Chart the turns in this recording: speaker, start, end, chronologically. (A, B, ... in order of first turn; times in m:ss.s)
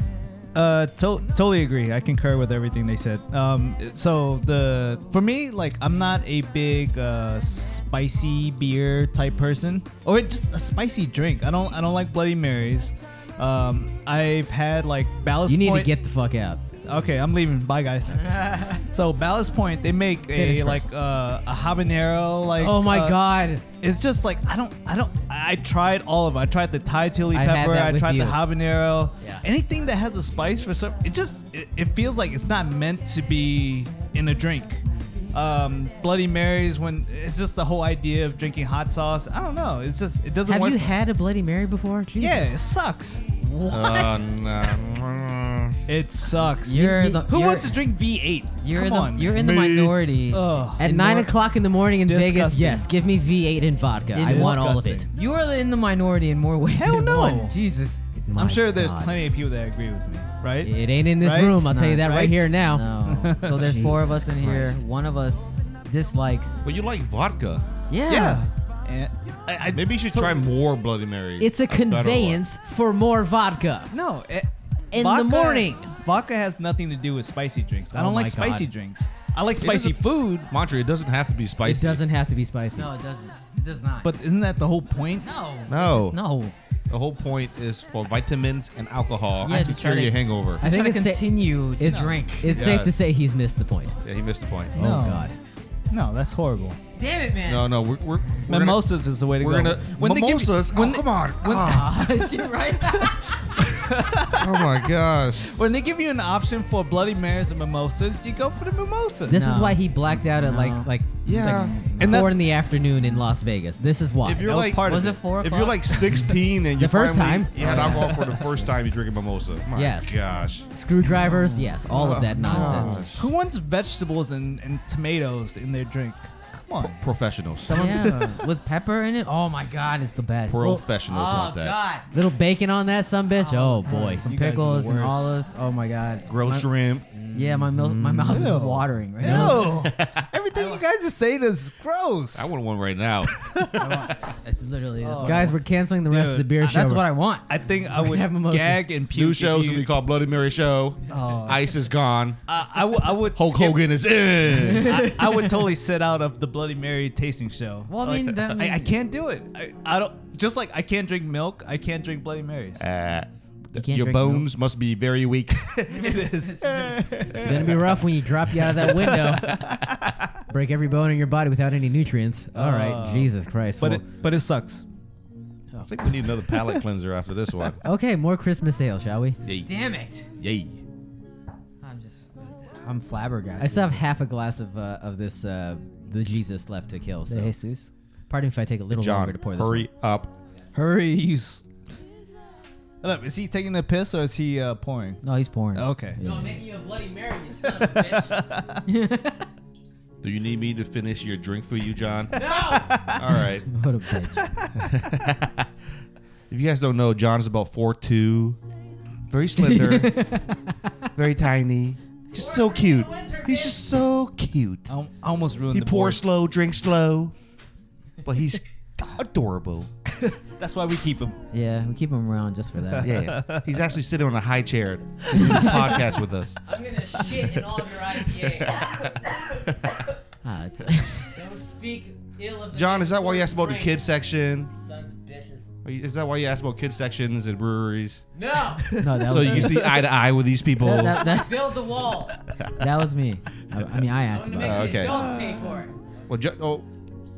0:00.5-0:15.9 A
0:15.5-0:16.6 B
0:16.8-0:41.0 A
0:20.3-0:20.9 B
0:22.6-0:23.6 B
0:27.3-0:28.4 B
0:29.2-0:29.4 B
0:40.4-0:42.6 B
0:42.2-0:43.2 A
0:43.4-0:44.2 C
0:43.7-0:45.8 D
0:45.9-0:49.4 A
0:46.6-0:47.8 C
0:48.6-0:51.2 C
0:49.3-0:50.0 D
0:50.3-0:51.2 A
0:50.8-0:55.1 B
0:52.0-0:52.9 A
0:54.1-0:55.1 A
0:54.1-0:58.0 C
0:56.7-0:57.6 A
0:58.1-0:59.3 B
0:58.3-1:02.5 A
1:00.6-1:02.9 B
1:01.7-1:06.6 C
1:03.0-1:03.9 A
1:03.4-1:04.8 B
1:06.6-1:07.6 D
1:07.9-1:08.4 C
1:08.1-1:10.5 A
1:09.7-1:12.4 D
1:11.4-1:13.9 B
1:13.9-1:20.5 A
1:14.9-1:15.9 B
1:17.9-1:18.7 B
1:19.6-1:22.0 D
1:21.6-1:22.9 B
1:22.7-1:24.1 C
1:24.0-1:25.3 A
1:25.2-1:26.5 C
1:25.7-1:26.2 D
1:26.9-1:30.6 D
1:29.4-1:32.7 C
1:30.6-1:34.0 B
1:31.8-1:32.1 A
1:32.5-1:32.9 D
1:34.0-1:34.7 D
1:34.7-1:35.3 A
1:34.8-1:35.4 B
1:35.9-1:36.8 A
1:37.0-1:37.7 C
1:37.4-1:42.1 D
1:38.5-1:49.4 A
1:41.4-1:43.4 C
1:44.3-1:45.4 D
1:49.3-1:52.3 C
1:49.3-1:54.6 B
1:51.2-1:51.8 D
1:52.0-1:52.4 A
1:54.2-2:00.6 D
1:54.4-1:55.2 A
1:54.8-1:56.4 C
1:56.8-1:58.3 B
1:57.6-1:58.7 C
1:59.7-2:03.0 B
2:01.0-2:01.8 C
2:01.9-2:03.3 D
2:02.4-2:03.0 C
2:02.5-2:07.0 A
2:06.8-2:08.0 D
2:07.5-2:12.1 C
2:07.7-2:08.4 A
2:10.4-2:11.8 D
2:12.1-2:14.2 B
2:13.3-2:16.7 C
2:13.8-2:15.4 A
2:16.2-2:17.1 D
2:17.2-2:18.6 B
2:17.3-2:19.9 C
2:18.3-2:22.5 A
2:19.2-2:19.8 B
2:19.7-2:20.3 D
2:20.5-2:20.8 C
2:22.3-2:24.1 D
2:23.2-2:24.1 A
2:23.7-2:25.6 C
2:25.0-2:25.6 A
2:25.2-2:27.1 B
2:26.1-2:29.9 A
2:26.6-2:27.4 C
2:27.9-2:28.9 B
2:29.1-2:32.4 D
2:31.1-2:31.7 A
2:32.5-2:33.9 A
2:33.3-2:35.1 D
2:34.4-2:42.8 A
2:34.6-2:35.7 C
2:37.9-2:39.0 C
2:42.8-2:46.2 D
2:43.8-2:44.4 B
2:43.8-2:44.3 C
2:45.8-2:50.3 A
2:46.2-2:46.9 C
2:47.2-2:48.0 D
2:47.3-2:49.6 B
2:50.5-2:54.0 B
2:52.5-2:54.8 A
2:55.8-2:57.8 D
2:56.2-2:56.8 A
2:57.8-2:59.4 B
2:59.4-2:59.7 D
2:59.6-3:00.2 C
3:00.4-3:00.8 D
3:01.8-3:04.0 C
3:03.6-3:07.5 B
3:07.3-3:07.9 C
3:08.3-3:09.9 B
3:08.9-3:10.3 D
3:10.7-3:11.6 A
3:13.0-3:15.2 A
3:15.2-3:16.6 C
3:15.7-3:16.2 A
3:16.2-3:18.3 B
3:17.6-3:18.8 A
3:18.9-3:19.4 C
3:20.2-3:22.5 D
3:22.3-3:23.0 C
3:22.8-3:23.1 A
3:23.1-3:23.7 D
3:23.6-3:24.4 C
3:24.4-3:24.7 A
3:24.8-3:25.7 D
3:26.5-3:28.6 D
3:29.3-3:30.2 D
3:29.6-3:30.9 C
3:31.1-3:34.9 D
3:32.5-3:33.7 B
3:34.9-3:36.2 A
3:35.7-3:37.3 D
3:38.2-3:39.9 D
3:40.1-3:41.4 A
3:41.5-3:43.1 C
3:42.9-3:43.8 A
3:43.0-3:46.6 D
3:45.4-3:45.6 C
3:45.4-3:46.0 A
3:46.7-3:48.8 B
3:47.1-3:49.1 D
3:47.2-3:47.5 C
3:50.4-3:55.7 B
3:52.7-3:54.7 D
3:55.8-3:58.2 D
3:58.3-3:59.0 B
3:58.8-4:00.0 A
3:58.9-4:00.0 C
3:59.2-4:01.4 D
4:00.8-4:02.2 C
4:01.3-4:02.3 B
4:02.8-4:05.3 C
4:04.3-4:05.9 B
4:04.6-4:05.6 D
4:05.0-4:05.8 A
4:06.3-4:06.9 D